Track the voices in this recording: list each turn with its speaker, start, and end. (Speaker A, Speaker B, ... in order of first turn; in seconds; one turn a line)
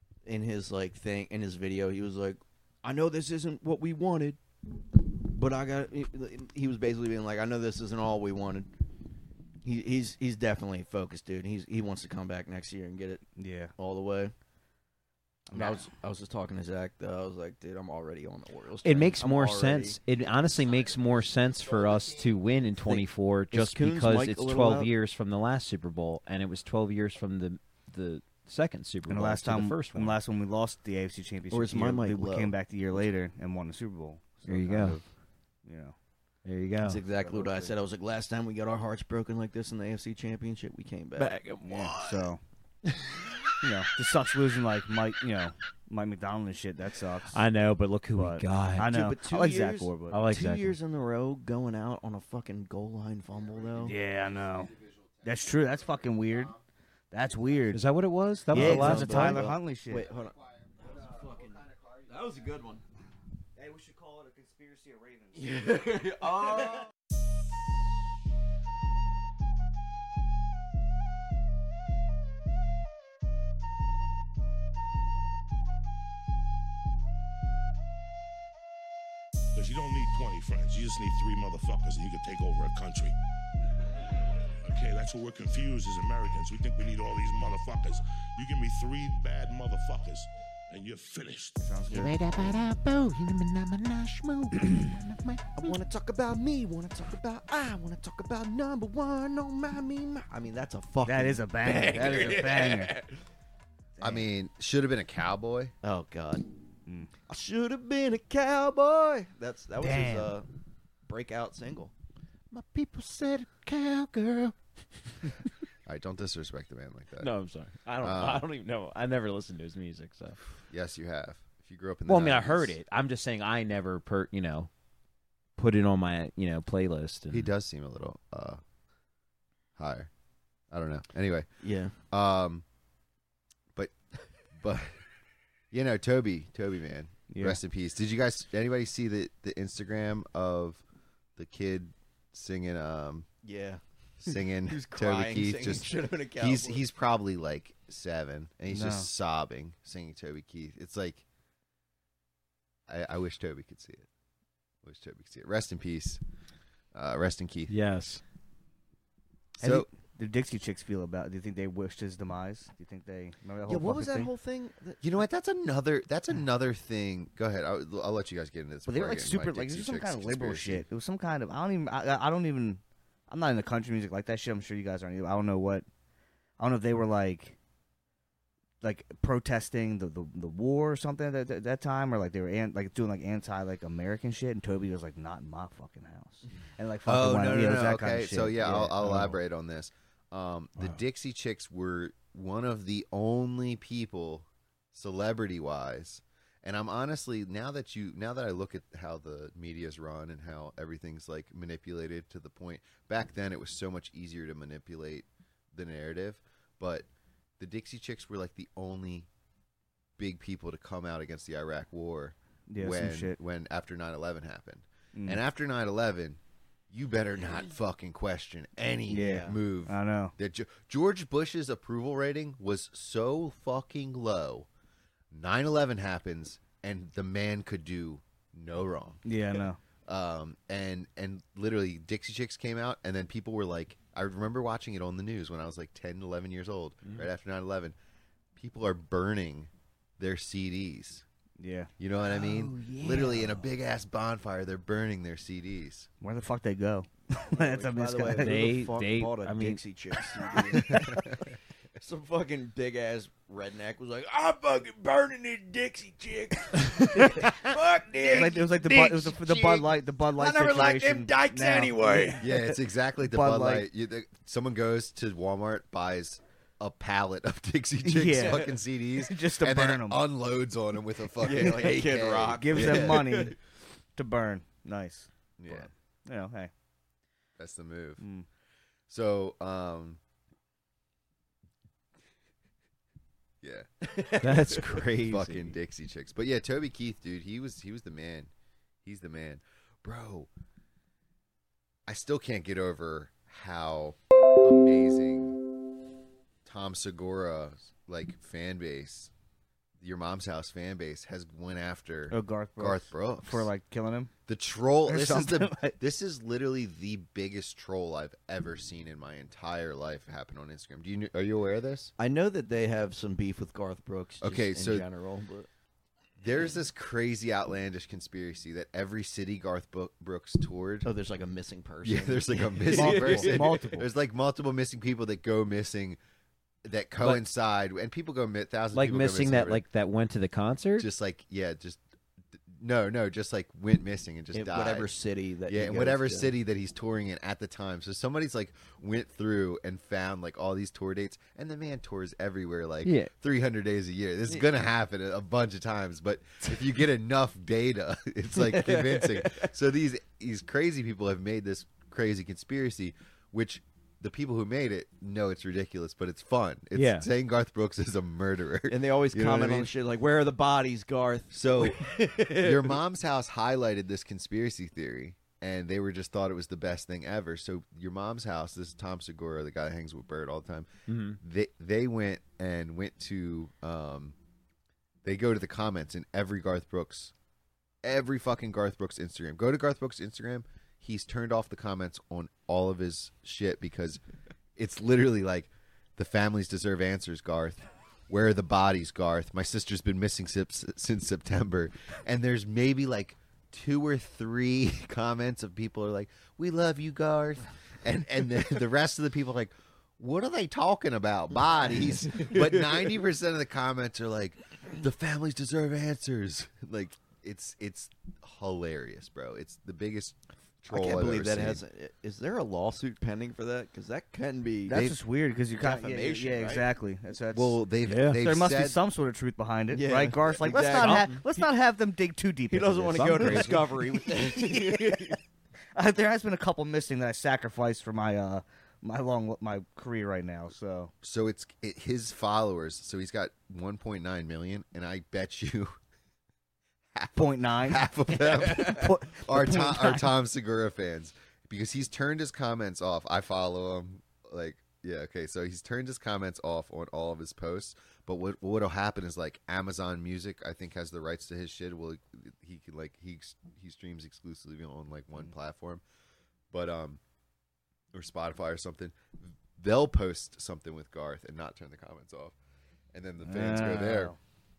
Speaker A: 0.2-4.4
Speaker A: 5.2-8.7
Speaker A: 9.6-13.2
Speaker B: 13.4-13.7
Speaker A: 13.8-14.3
Speaker B: 15.5-15.9
Speaker A: 15.5-20.0
Speaker C: 18.8-30.1
Speaker A: 22.8-24.9
Speaker B: 29.1-35.0
Speaker A: 31.5-33.0
Speaker C: 34.5-35.0
Speaker B: 35.6-36.0
Speaker C: 36.5-37.0
Speaker A: 36.8-41.3
Speaker B: 37.1-37.7
Speaker C: 41.2-42.3
Speaker B: 41.6-42.4
Speaker B: 43.6-47.4
Speaker C: 47.3-48.9
Speaker B: 48.1-50.2
Speaker A: 48.9-53.9
Speaker C: 50.1-50.8
Speaker D: 53.8-55.3
Speaker B: 53.8-56.5
Speaker B: 57.1-57.8
Speaker C: 57.7-59.5
Speaker B: 58.5-60.1
Speaker A: 58.5-60.4
Speaker A: 60.9-62.8
Speaker B: 63.5-65.5
Speaker A: 65.4-66.7
Speaker E: 79.5-83.1
Speaker E: 84.6-91.6
Speaker B: 91.6-92.2
Speaker D: 91.9-95.8
Speaker A: 95.5-103.0
Speaker B: 101.0-103.0
Speaker B: 104.0-104.2
Speaker D: 104.0-105.7
Speaker A: 105.8-106.4
Speaker A: 107.3-110.5
Speaker B: 109.8-110.3
Speaker A: 111.0-111.9
Speaker D: 112.5-114.5
Speaker D: 115.8-117.3
Speaker C: 117.2-120.4
Speaker D: 118.0-118.5
Speaker D: 120.6-122.8
Speaker C: 122.1-124.7
Speaker C: 125.6-127.5
Speaker D: 127.3-128.6
Speaker D: 129.8-130.1
Speaker D: 130.7-131.5
Speaker A: 131.6-131.9
Speaker D: 132.1-132.6
Speaker D: 134.5-134.9
Speaker D: 135.7-140.8
Speaker B: 137.3-137.6
Speaker D: 141.3-143.3
Speaker A: 143.4-146.8
Speaker D: 144.2-151.2
Speaker B: 148.7-149.1
Speaker D: 152.9-154.1
Speaker D: 154.8-156.2
Speaker D: 156.9-157.8
Speaker C: 157.7-158.2
Speaker D: 159.6-159.9
Speaker B: 159.6-164.3
Speaker A: 163.7-165.0
Speaker D: 165.0-170.8
Speaker B: 168.8-175.8
Speaker B: 176.6-177.6
Speaker B: 178.8-189.4
Speaker D: 187.0-207.1
Speaker D: 207.6-209.3
Speaker D: 210.2-216.4
Speaker B: 212.7-213.3
Speaker B: 215.1-215.4
Speaker D: 216.9-224.7
Speaker B: 219.1-220.3
Speaker A: 219.2-219.6
Speaker D: 225.3-229.2
Speaker B: 229.2-229.8
Speaker D: 230.1-237.9
Speaker D: 238.6-241.2
Speaker B: 241.6-241.9
Speaker D: 242.0-246.1
Speaker A: 242.6-243.4
Speaker B: 246.2-248.8
Speaker A: 247.5-250.9
Speaker C: 248.4-249.8
Speaker B: 250.7-251.2
Speaker D: 250.8-251.4
Speaker A: 252.0-262.4
Speaker B: 258.2-262.4
Speaker D: 262.4-273.3
Speaker B: 263.2-263.9
Speaker B: 268.0-270.2
Speaker A: 271.4-273.6
Speaker B: 271.6-272.0
Speaker B: 272.6-273.6
Speaker B: 274.2-276.7
Speaker D: 275.6-275.9
Speaker D: 277.6-278.2
Speaker B: 278.2-278.4
Speaker D: 279.1-280.2
Speaker D: 283.6-284.1
Speaker A: 284.1-284.4
Speaker C: 284.4-285.7
Speaker D: 285.2-288.5
Speaker D: 289.0-290.5
Speaker D: 292.1-295.6
Speaker D: 296.6-299.3
Speaker D: 300.0-303.7
Speaker B: 302.3-304.3
Speaker D: 304.5-312.1
Speaker B: 305.1-305.9
Speaker A: 312.2-315.7
Speaker D: 314.4-315.1
Speaker D: 316.4-321.1
Speaker A: 321.0-323.6
Speaker D: 322.0-326.2
Speaker B: 322.9-324.1
Speaker D: 326.8-329.8
Speaker C: 328.9-331.1
Speaker D: 331.0-332.0
Speaker D: 332.7-335.1
Speaker A: 334.5-336.5
Speaker D: 335.7-359.9
Speaker C: 343.0-343.3
Speaker A: 348.5-349.7
Speaker C: 356.9-357.3
Speaker A: 358.9-362.9
Speaker D: 361.5-374.4
Speaker C: 371.1-371.4
Speaker D: 375.2-377.3
Speaker D: 378.0-384.2
Speaker D: 384.8-411.8
Speaker A: 410.9-414.9
Speaker B: 414.9-417.8
Speaker D: 414.9-415.2
Speaker A: 415.8-416.8
Speaker D: 417.5-419.0
Speaker C: 418.1-418.4
Speaker B: 418.4-425.4
Speaker A: 419.9-421.6
Speaker C: 420.9-421.3
Speaker A: 422.7-425.4
Speaker C: 423.1-423.8
Speaker B: 425.9-431.1
Speaker D: 431.2-435.9
Speaker D: 437.1-456.0
Speaker B: 437.3-440.3
Speaker D: 456.7-457.2
Speaker D: 458.1-462.6
Speaker D: 463.1-464.3
Speaker B: 463.4-464.4